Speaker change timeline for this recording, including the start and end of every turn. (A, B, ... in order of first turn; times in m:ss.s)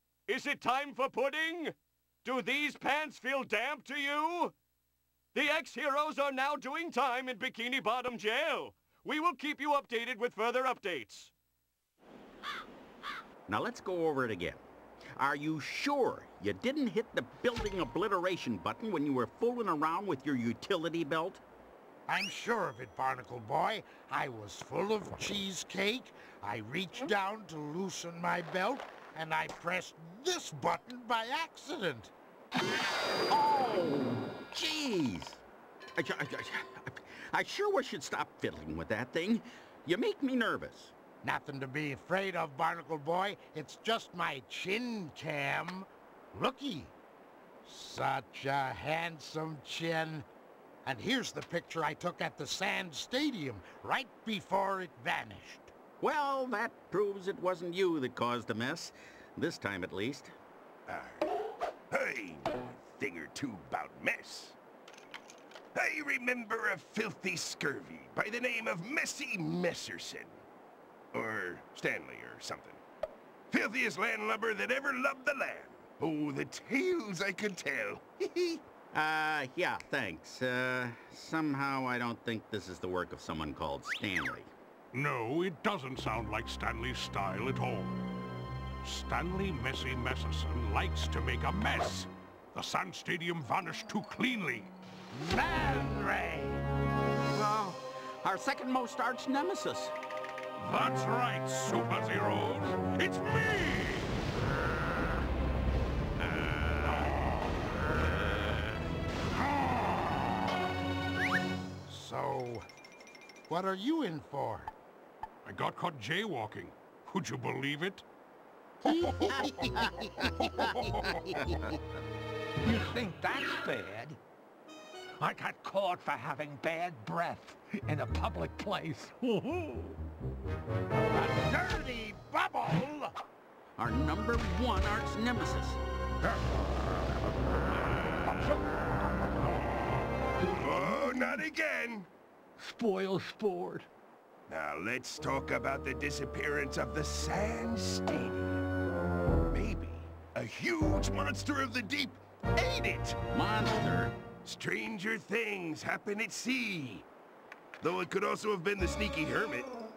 0:00.3-0:04.5 A
0:05.3-0:11.3 A
0:13.5-0:14.6 B
0:15.2-0:21.4 B
0:22.1-0:32.1 C
0:33.3-0:35.4 B
0:36.0-0:40.9 B
0:41.2-0:46.9 C
0:47.6-0:50.3 C
0:50.8-0:55.7 C
0:56.0-1:00.3 B
1:00.9-1:01.3 D
1:01.9-1:04.6 D
1:05.7-1:10.4 D
1:11.1-1:12.8 D
1:13.5-1:18.6 D
1:18.9-1:24.5 B
1:24.9-1:28.0 E
1:28.8-1:34.7 E
1:35.1-1:36.6 C
1:37.3-1:39.9 B
1:40.6-1:44.2 E
1:46.8-1:47.3 E
1:51.9-1:52.7 C
1:53.5-1:54.7 C
1:55.4-1:58.0 E
1:58.8-2:01.4 C
1:59.5-2:00.6 B
2:00.6-2:01.2 E
2:02.6-2:04.2 F
2:05.2-2:10.0 F
2:11.1-2:13.1 C
2:13.8-2:15.8 B
2:20.4-2:22.1 D
2:22.6-2:23.9 F
2:24.5-2:28.6 D
2:29.5-2:33.2 D
2:33.3-2:34.2 B
2:34.4-2:37.1 D
2:37.8-2:39.7 D